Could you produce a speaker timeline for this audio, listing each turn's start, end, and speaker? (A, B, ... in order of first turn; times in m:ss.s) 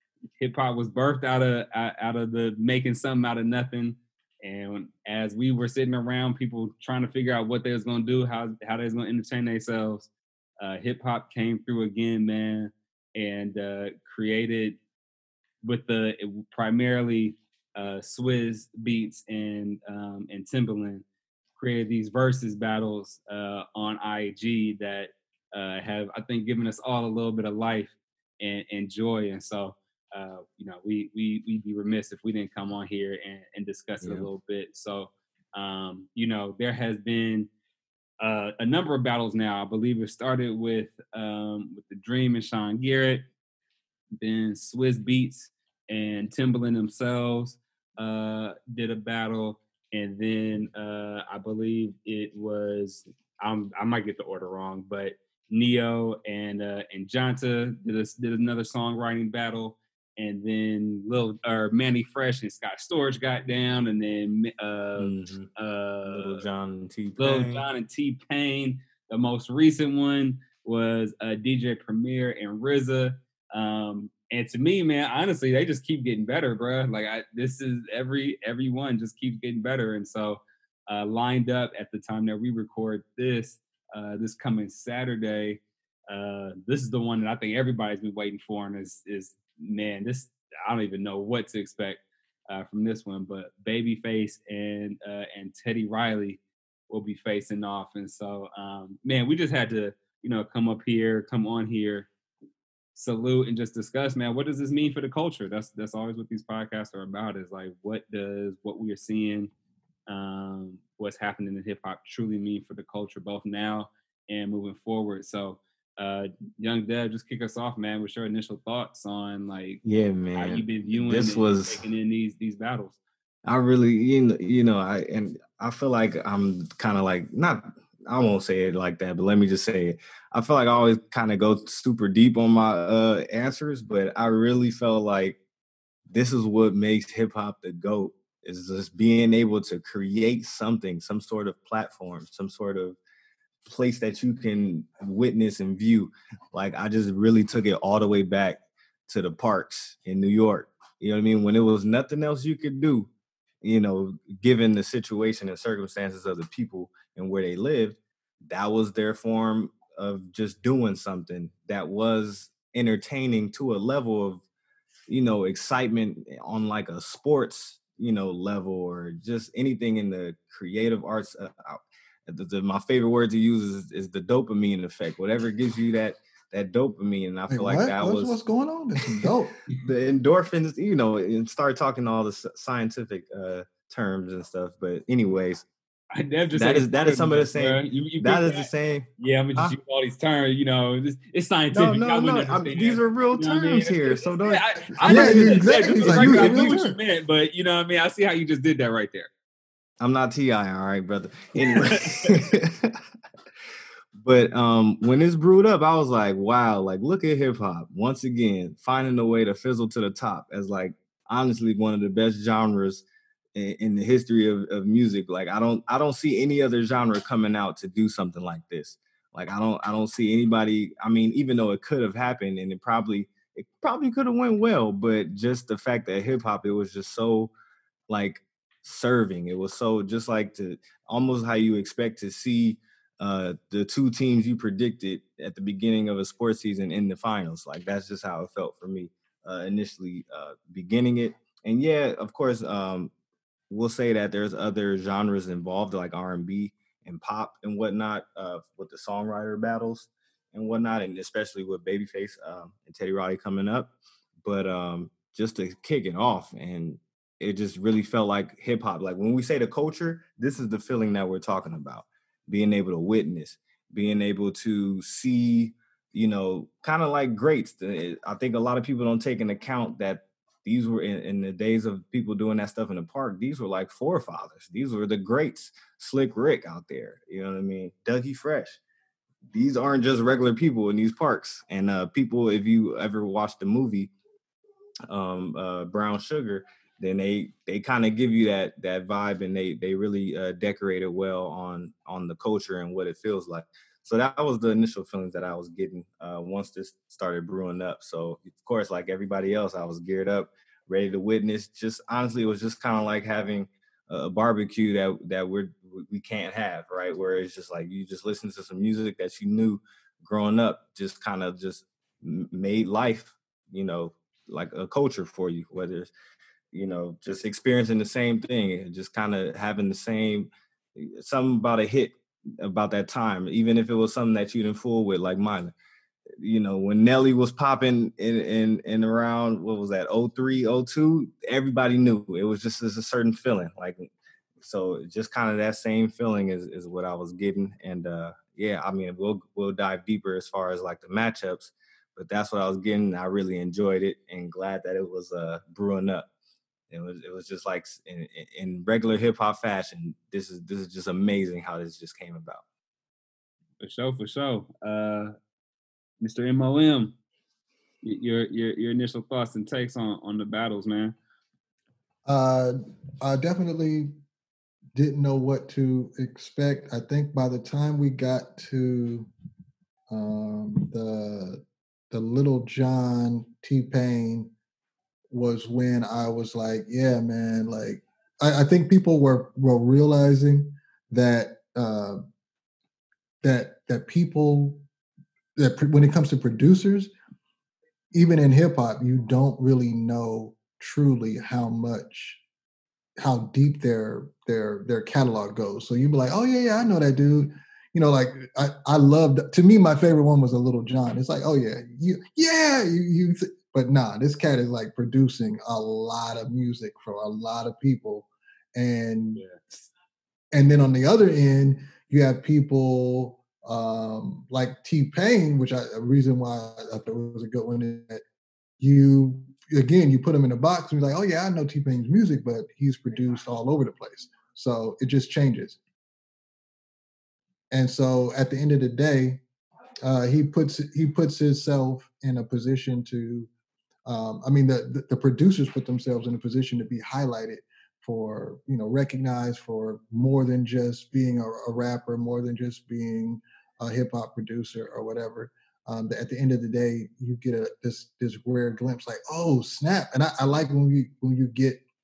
0:00.4-0:10.1 A
0:10.6-0:14.8 A
0:15.6-0:21.0 A
0:21.6-0:37.5 A
0:34.0-0:34.3 B
0:38.2-0:43.2 A
0:44.2-1:06.4 A
1:05.0-1:05.5 B
1:06.1-1:07.7 B
1:07.2-1:42.1 A
1:42.9-1:49.5 A
1:50.1-1:59.8 A
1:59.8-2:01.8 B
2:00.3-2:03.0 A
2:03.4-2:15.4 B
2:16.1-2:23.0 B
2:23.7-2:33.1 B
2:33.6-2:44.4 B
2:45.1-2:58.4 B
2:57.5-2:59.6 C
2:59.8-3:05.6 B
3:06.1-3:19.3 A
3:06.5-3:09.8 B
3:11.7-3:16.6 B
3:15.0-3:17.0 C
3:20.0-3:23.0 B
3:21.6-3:22.4 A
3:24.2-3:33.0 B
3:33.6-3:47.5 B
3:48.1-4:03.1 B
4:03.7-4:13.9 B
4:14.4-4:38.8 B
4:39.5-4:44.1 B
4:45.1-5:16.1 B
5:16.7-5:25.7 B
5:26.4-5:34.1 B
5:34.6-5:46.3 B
5:46.9-5:52.6 B
5:53.8-5:55.3 A
5:56.2-5:57.1 A
5:58.0-6:01.2 A
6:02.3-6:04.2 C
6:05.0-6:09.3 C
6:10.1-6:14.5 C
6:15.3-6:22.2 C
6:23.4-6:24.8 C
6:25.6-6:27.1 C
6:28.1-6:32.4 C
6:33.2-6:49.4 C
6:50.5-6:58.2 C
6:58.8-7:05.8 C
7:07.7-7:09.4 C
7:10.0-7:13.5 C
7:14.1-7:31.8 C